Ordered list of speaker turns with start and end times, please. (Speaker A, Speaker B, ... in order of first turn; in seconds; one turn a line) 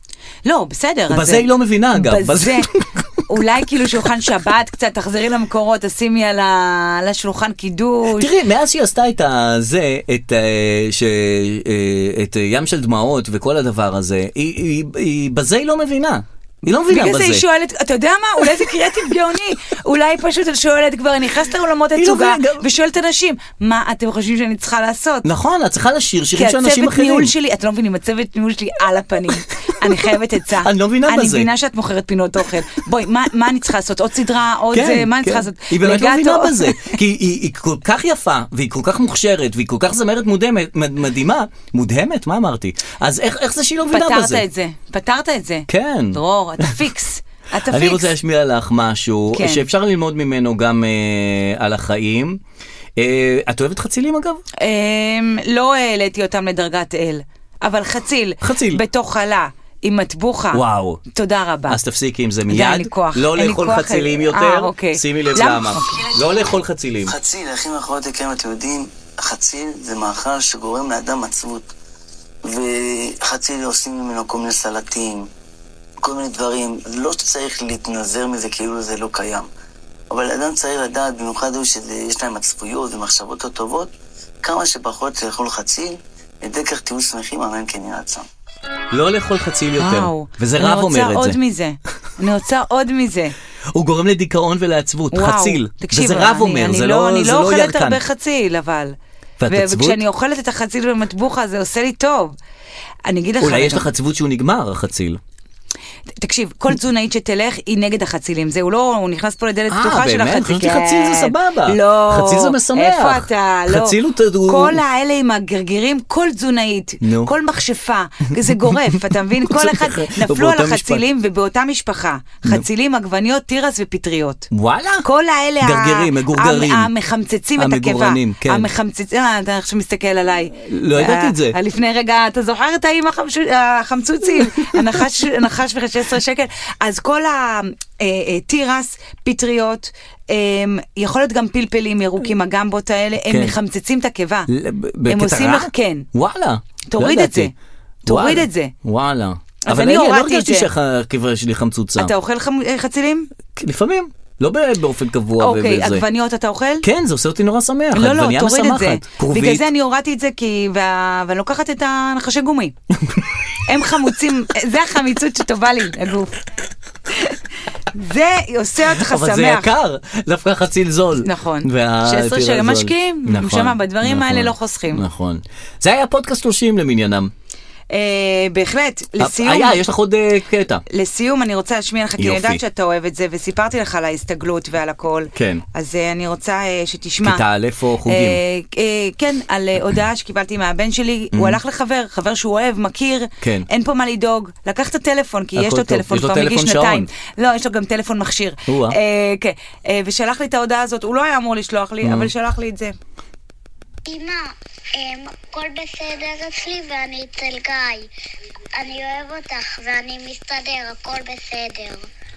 Speaker A: 0.5-2.7
Speaker B: 1.1-3.4
Speaker A: 3.3-8.3
Speaker B: 8.1-17.5
Speaker A: 16.9-25.3
Speaker B: 18.4-18.9
Speaker B: 21.9-22.6
Speaker B: 25.2-27.3
Speaker A: 26.4-37.0
Speaker B: 30.6-31.5
Speaker B: 34.7-44.5
Speaker A: 43.9-48.1
Speaker B: 45.7-46.8
Speaker B: 47.7-52.4
Speaker A: 49.3-49.7
Speaker B: 53.0-54.4
Speaker A: 54.6-61.8
Speaker B: 58.4-58.8
Speaker B: 60.5-61.0
Speaker B: 61.7-67.1
Speaker A: 62.5-66.1
Speaker C: 67.1-71.7
Speaker C: 72.4-75.3
Speaker C: 76.0-79.5
Speaker C: 80.1-83.9
Speaker C: 84.4-88.2
Speaker B: 88.9-91.4
Speaker A: 89.8-93.3
Speaker B: 93.7-98.0
Speaker A: 95.1-99.0
Speaker B: 99.4-100.0
Speaker A: 99.5-102.4
Speaker A: 103.1-103.9
Speaker B: 103.4-105.2
Speaker A: 106.2-124.5
Speaker B: 109.7-114.8
Speaker B: 117.0-117.3
Speaker B: 118.3-121.0
Speaker B: 124.5-125.0
Speaker A: 125.0-144.5
Speaker B: 125.6-126.9
Speaker B: 127.6-128.7
Speaker B: 130.6-131.6
Speaker B: 143.3-143.5
Speaker B: 144.5-147.5
Speaker A: 145.1-146.1
Speaker A: 146.9-147.5
Speaker A: 148.1-148.7
Speaker B: 148.1-152.1
Speaker A: 149.6-150.7
Speaker A: 152.0-153.3
Speaker B: 153.5-156.1
Speaker A: 155.4-156.9
Speaker B: 156.8-159.7
Speaker A: 157.9-162.8
Speaker B: 163.0-163.2
Speaker A: 163.7-166.4
Speaker A: 167.1-167.4
Speaker A: 167.9-169.7
Speaker B: 168.8-177.3
Speaker A: 171.2-175.0
Speaker A: 177.9-179.8
Speaker B: 179.2-180.8
Speaker A: 180.9-187.4
Speaker B: 182.2-182.6
Speaker B: 185.3-185.7
Speaker B: 187.2-188.4
Speaker A: 188.1-202.9
Speaker B: 191.3-191.6
Speaker B: 193.4-193.7
Speaker B: 195.6-197.1
Speaker B: 198.7-199.0
Speaker B: 202.0-202.3
Speaker D: 204.1-208.1
Speaker D: 208.8-212.1